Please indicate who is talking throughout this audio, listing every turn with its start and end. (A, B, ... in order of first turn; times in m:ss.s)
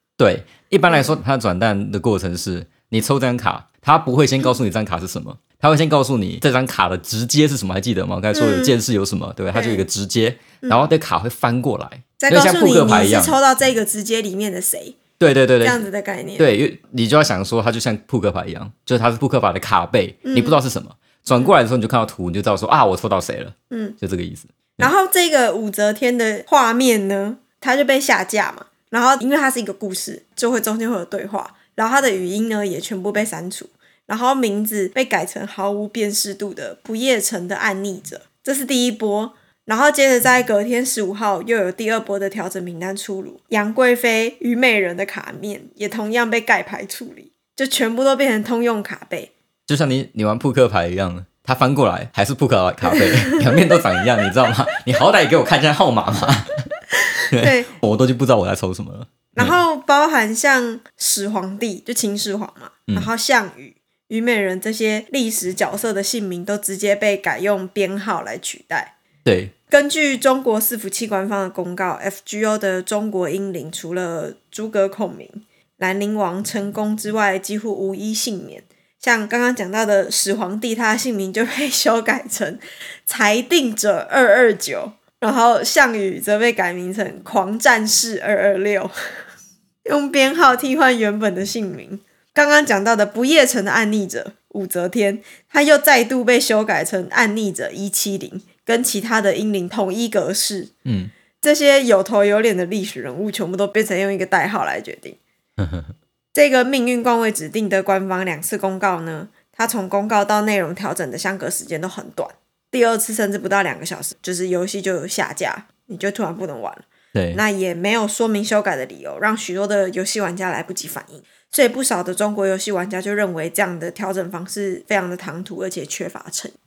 0:00.2-0:13.4 A
0:08.3-0:08.8 B
0:09.5-0:09.8 B
0:10.6-0:10.9 B
0:12.2-0:15.0 B
0:15.2-0:15.8 A
0:15.6-0:16.5 B
0:16.4-0:24.9 A
0:20.2-0:20.6 B
0:23.7-0:24.0 B
0:24.8-0:49.3 B
0:49.7-0:56.6 A
0:53.0-0:53.4 B
0:57.2-0:57.7 B
0:57.3-0:59.6 A
0:59.4-1:08.9 B
1:09.2-1:09.5 A
1:09.7-1:28.9 B
1:29.8-1:40.7 B
1:40.8-1:41.1 A
1:41.4-1:45.2 B
1:45.6-1:45.9 A
1:46.3-2:06.6 B
1:57.2-1:57.4 A